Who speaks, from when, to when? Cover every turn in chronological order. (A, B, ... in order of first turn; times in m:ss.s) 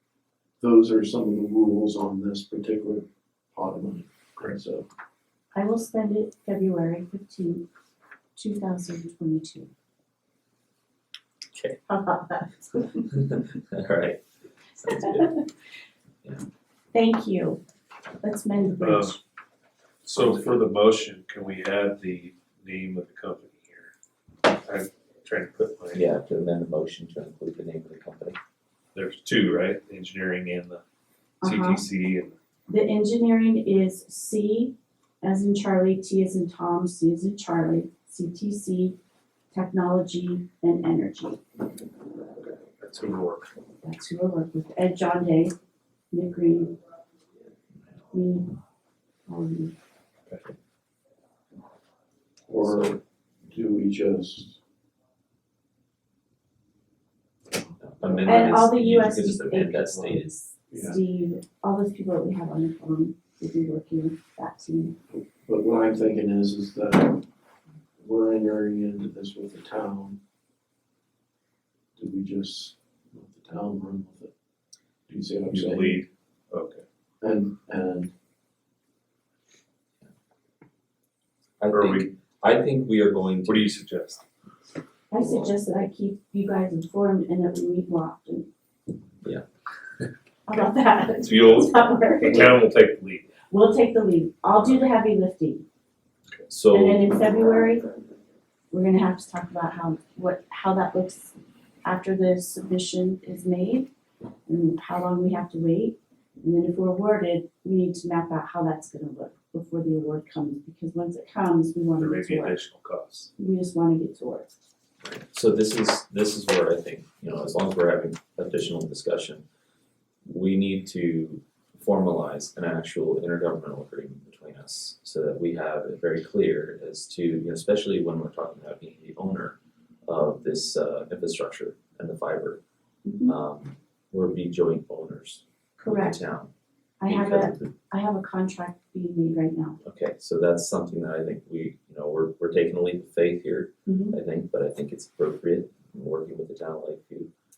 0:00.6-0:04.9 A
0:05.5-0:07.6 B
0:08.4-0:09.7 B
0:11.8-0:13.1 B
0:13.1-0:14.2 C
0:14.8-0:15.3 C
0:14.9-0:15.4 B
0:16.9-0:17.6 B
0:18.2-0:19.2 B
0:18.8-0:19.2 D
0:20.0-0:23.9 D
0:24.5-0:26.0 D
0:25.9-0:28.4 C
0:28.9-0:30.8 D
0:31.4-0:31.8 B
0:31.4-0:32.3 D
0:32.7-0:39.0 B
0:39.5-0:41.4 B
0:42.8-0:43.5 D
0:43.8-0:45.5 B
0:46.1-0:46.8 B
0:48.1-0:48.5 B
0:49.3-0:49.7 B
0:52.5-0:54.6 A
0:52.6-0:52.9 C
0:57.5-0:58.4 A
0:57.8-1:00.3 C
0:58.2-1:04.9 B
1:00.7-1:01.0 A
1:05.1-1:07.2 A
1:08.0-1:10.2 A
1:12.0-1:14.3 A
1:15.1-1:16.0 A
1:15.5-1:16.8 D
1:17.2-1:18.1 A
1:21.6-1:23.7 C
1:21.7-1:22.1 D
1:23.4-1:24.2 D
1:25.1-1:28.5 B
1:25.1-1:25.6 C
1:30.5-1:32.6 B
1:31.3-1:31.6 C
1:32.2-1:33.2 D
1:33.5-1:35.6 B
1:36.5-1:37.1 C
1:36.7-1:38.0 B
1:38.7-1:43.9 B
1:44.5-1:52.6 B
1:52.0-1:53.3 D
1:53.4-1:54.5 B
1:55.0-1:59.4 C
2:00.2-2:12.6 C
2:13.0-2:13.3 B
2:13.2-2:16.5 C
2:15.8-2:16.2 B
2:17.0-2:19.8 B
2:17.0-2:17.7 C
2:19.8-2:27.3 C
2:23.8-2:24.2 B